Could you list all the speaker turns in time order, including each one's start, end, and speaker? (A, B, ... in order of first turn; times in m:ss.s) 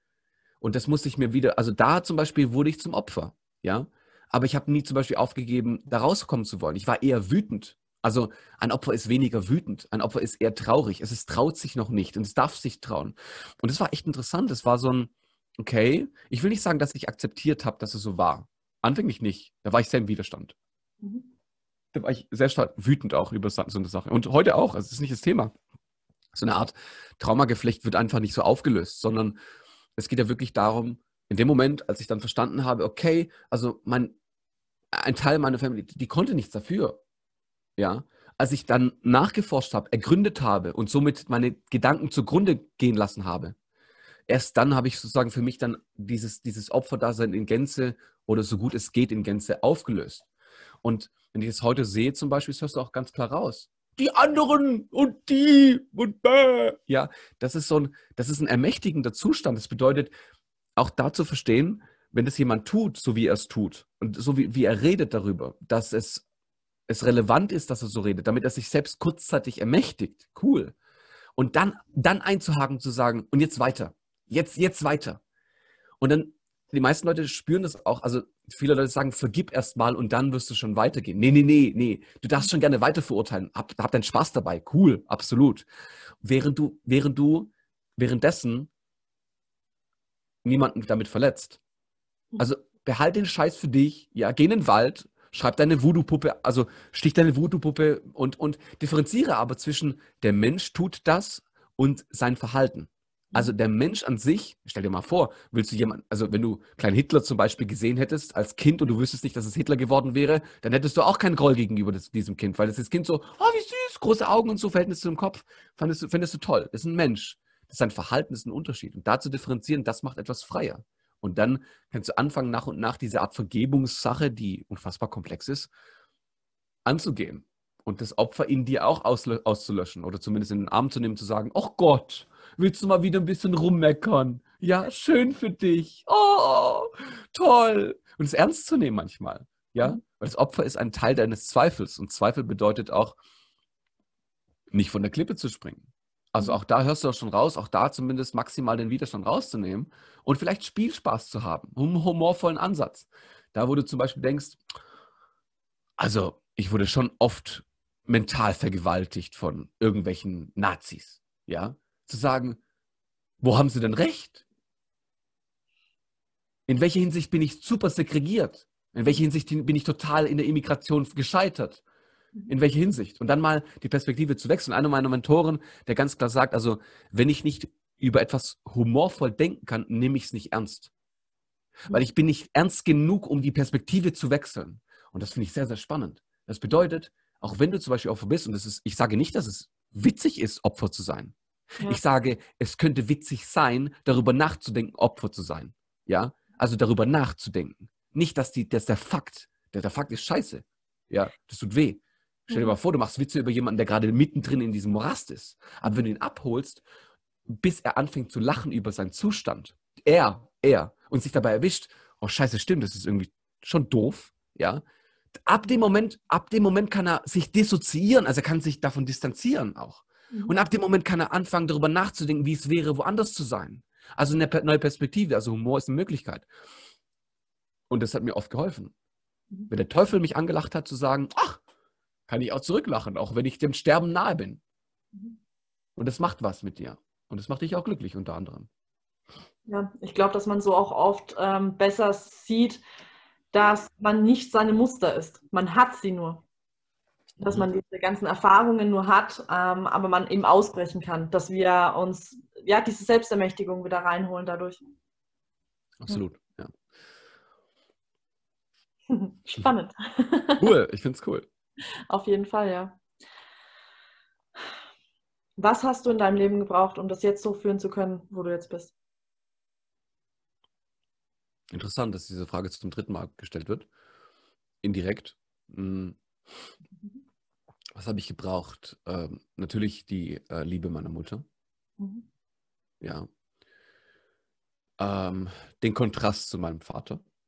0:00.6-0:20.5 A
0:21.0-0:21.3 B
0:21.9-0:25.5 A
0:26.3-0:29.4 A
0:30.0-0:34.1 A
0:34.9-0:37.0 A
0:37.8-0:43.5 A
0:44.3-0:50.2 A
0:50.8-1:00.1 A
1:00.8-1:06.2 A
1:06.9-1:10.7 A
1:11.4-1:15.2 A
1:16.0-1:25.7 A
1:26.2-1:28.7 A
1:30.4-1:31.6 A
1:32.4-2:05.7 A
2:06.8-2:23.2 A
2:24.7-2:34.6 A
2:36.0-2:42.6 A
2:43.4-2:44.4 A
2:46.7-2:51.8 A
2:52.5-3:00.9 A
3:01.9-3:26.8 A
3:22.5-3:22.8 B
3:27.5-3:34.8 A
3:35.3-3:46.5 A
3:47.9-3:48.9 A
3:49.7-3:51.6 A
3:52.3-3:54.6 A
3:56.0-3:58.7 A
3:59.6-4:02.8 B
4:03.5-4:06.4 B
4:07.4-4:14.8 B
4:16.0-4:16.7 A
4:19.1-4:20.7 B
4:20.6-4:21.5 A
4:22.1-4:23.0 B
4:25.6-4:28.9 B
4:31.7-4:33.9 A
4:34.8-4:36.2 A
4:37.9-4:41.4 A
4:42.0-4:42.2 B
4:43.0-4:43.3 A
4:45.0-4:47.2 A